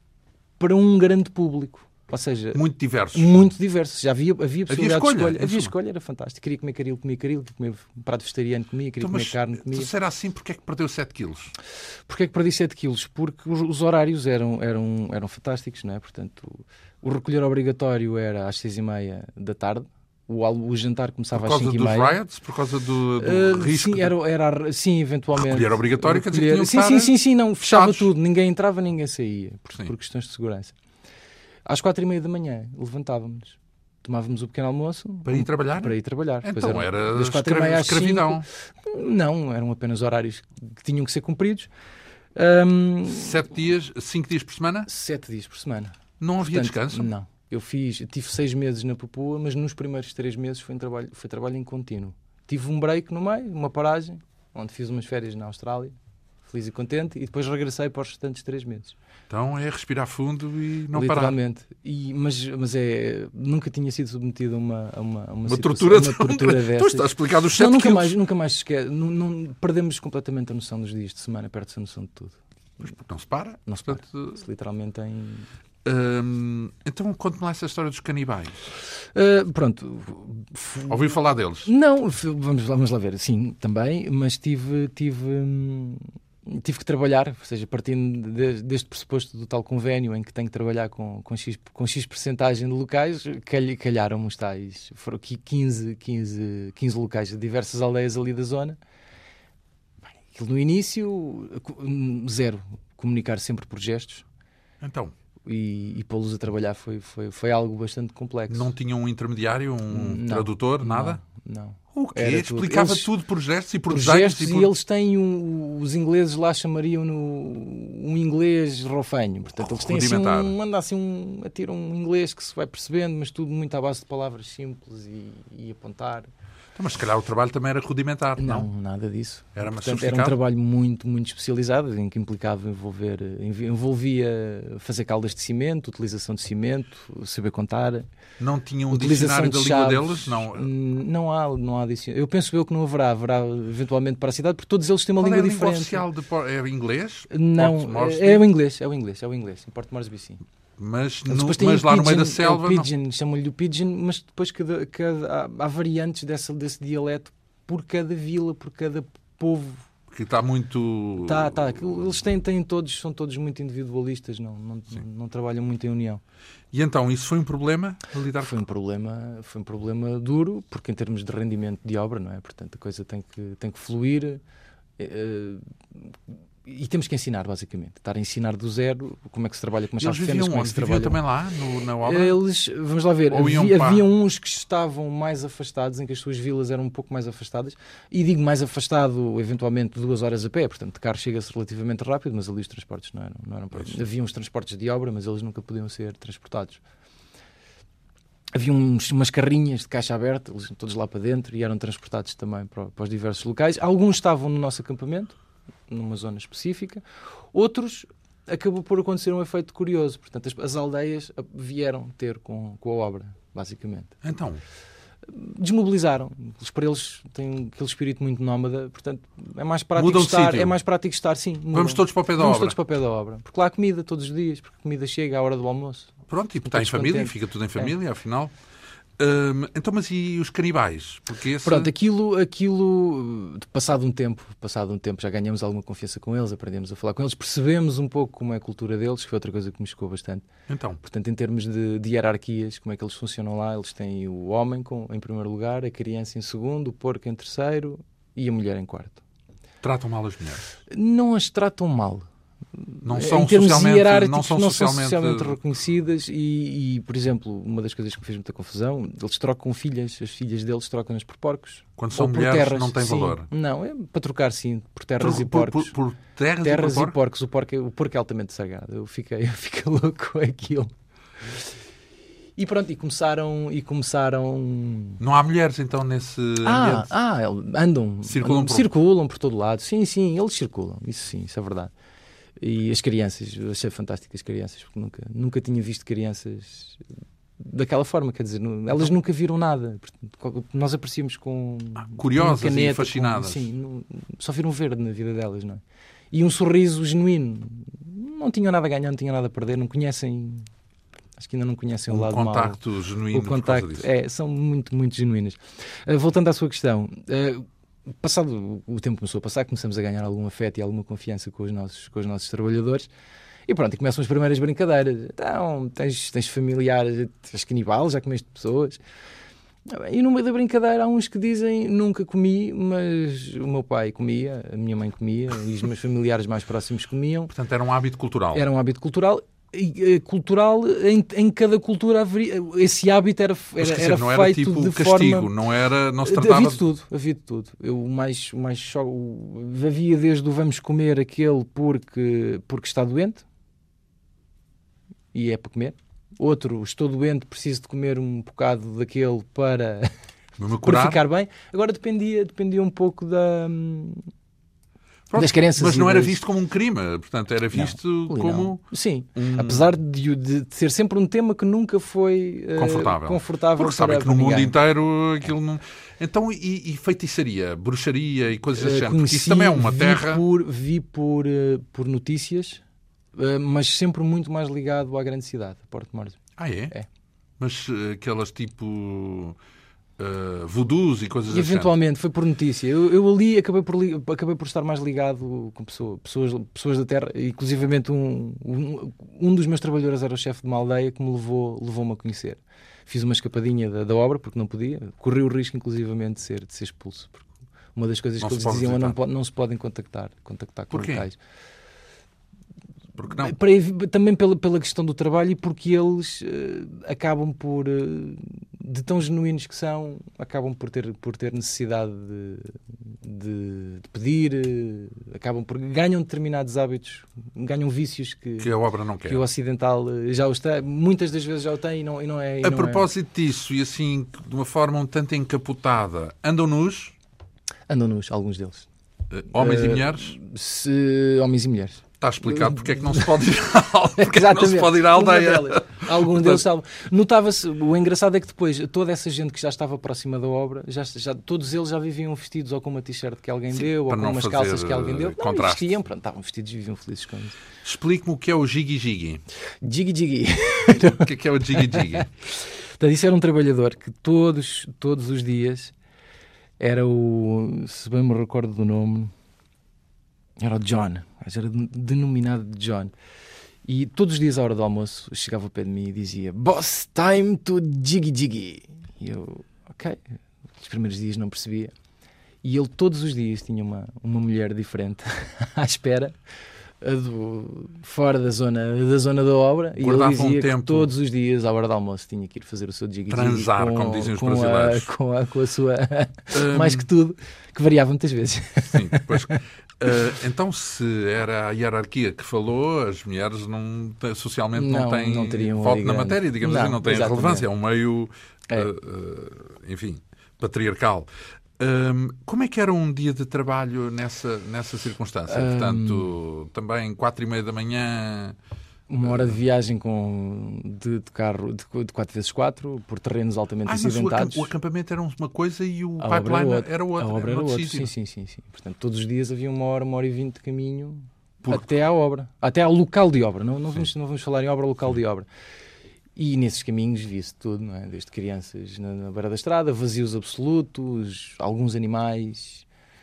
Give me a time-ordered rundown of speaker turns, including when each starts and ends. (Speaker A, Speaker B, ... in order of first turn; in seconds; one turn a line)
Speaker A: 0.6-9.9
Speaker B: 2.5-3.4
Speaker B: 4.7-5.7
Speaker B: 9.0-11.5
Speaker A: 12.1-22.2
Speaker B: 21.3-24.1
Speaker A: 23.2-30.8
Speaker B: 25.3-28.1
Speaker A: 31.7-41.7
Speaker B: 35.3-38.5
Speaker A: 42.4-43.4
Speaker B: 43.1-44.9
Speaker A: 44.9-56.0
Speaker B: 46.2-47.1
Speaker A: 56.5-59.0
Speaker B: 59.3-61.4
Speaker A: 60.9-72.4
Speaker B: 65.5-68.2
Speaker B: 72.8-74.4
Speaker A: 73.7-75.5
Speaker B: 75.8-78.7
Speaker A: 79.1-98.8
Speaker B: 80.9-81.7
Speaker A: 100.3-104.2
Speaker B: 104.8-105.1
Speaker A: 105.5-108.7
Speaker B: 108.5-111.2
Speaker A: 109.9-113.1
Speaker B: 111.9-114.7
Speaker A: 113.9-126.3
Speaker B: 119.6-120.6
Speaker B: 126.8-128.7
Speaker A: 128.4-138.1
Speaker B: 129.6-130.4
Speaker B: 138.4-140.7
Speaker A: 138.9-146.1
Speaker B: 145.2-148.4
Speaker A: 147.3-150.4
Speaker B: 150.8-152.9
Speaker A: 151.3-159.9
Speaker B: 160.1-162.1
Speaker A: 161.2-166.2
Speaker B: 166.7-168.6
Speaker A: 168.4-174.4
Speaker A: 175.0-181.2
Speaker B: 180.0-182.4
Speaker A: 182.0-196.8
Speaker B: 183.3-184.1
Speaker A: 198.6-205.3
Speaker A: 205.9-214.2
Speaker B: 214.2-214.6
Speaker A: 215.3-227.9
Speaker B: 220.0-220.8
Speaker B: 221.7-222.8
Speaker B: 226.3-228.5
Speaker B: 229.2-231.9
Speaker A: 231.6-240.5
Speaker B: 240.7-241.0
Speaker A: 241.0-249.2
Speaker B: 249.8-250.7
Speaker A: 250.9-252.3
Speaker A: 252.8-265.9
Speaker B: 253.0-255.6
Speaker B: 262.0-263.5
Speaker B: 265.2-267.2
Speaker A: 266.6-270.9
Speaker A: 272.6-275.2
Speaker B: 275.2-277.1
Speaker A: 276.6-281.9
Speaker B: 278.2-278.9
Speaker A: 282.6-287.0
Speaker A: 287.6-295.8
Speaker B: 292.0-293.7
Speaker A: 296.3-300.7
Speaker A: 301.4-307.6
Speaker B: 302.1-304.1
Speaker A: 308.2-313.1
Speaker A: 313.7-319.0
Speaker A: 319.9-327.5
Speaker B: 327.5-328.6
Speaker A: 328.5-335.5
Speaker B: 333.8-336.8
Speaker A: 336.2-343.4
Speaker A: 345.3-350.1
Speaker B: 350.6-351.2
Speaker A: 350.8-354.3
Speaker B: 355.3-358.8
Speaker A: 355.4-356.4
Speaker A: 357.7-364.8
Speaker B: 359.4-359.9
Speaker B: 362.8-370.4
Speaker A: 368.8-372.8
Speaker A: 373.4-377.1
Speaker B: 376.6-376.9
Speaker B: 377.6-379.6
Speaker B: 380.2-381.9
Speaker A: 381.5-401.4
Speaker B: 398.4-399.2
Speaker B: 400.9-401.2
Speaker B: 403.2-403.6
Speaker A: 403.3-418.7
Speaker B: 418.6-419.4
Speaker A: 419.2-423.1
Speaker B: 422.6-427.1
Speaker A: 427.9-428.9
Speaker B: 429.3-430.4
Speaker A: 429.5-433.5
Speaker B: 432.2-436.6
Speaker A: 434.2-447.6
Speaker B: 443.7-445.9
Speaker B: 447.8-449.4
Speaker A: 449.8-455.9
Speaker B: 450.9-452.3
Speaker A: 456.8-459.3
Speaker A: 460.6-463.1
Speaker A: 463.9-470.2
Speaker A: 470.8-471.9
Speaker A: 472.6-476.4
Speaker A: 477.0-489.6
Speaker B: 480.0-481.1
Speaker B: 483.3-485.1
Speaker B: 486.5-487.1
Speaker B: 488.9-501.3
Speaker A: 494.7-497.7
Speaker B: 501.8-508.6
Speaker A: 505.5-506.3
Speaker A: 509.1-514.7
Speaker B: 509.2-509.6
Speaker B: 513.9-518.1
Speaker A: 516.2-525.5
Speaker B: 521.6-521.9
Speaker A: 526.4-532.9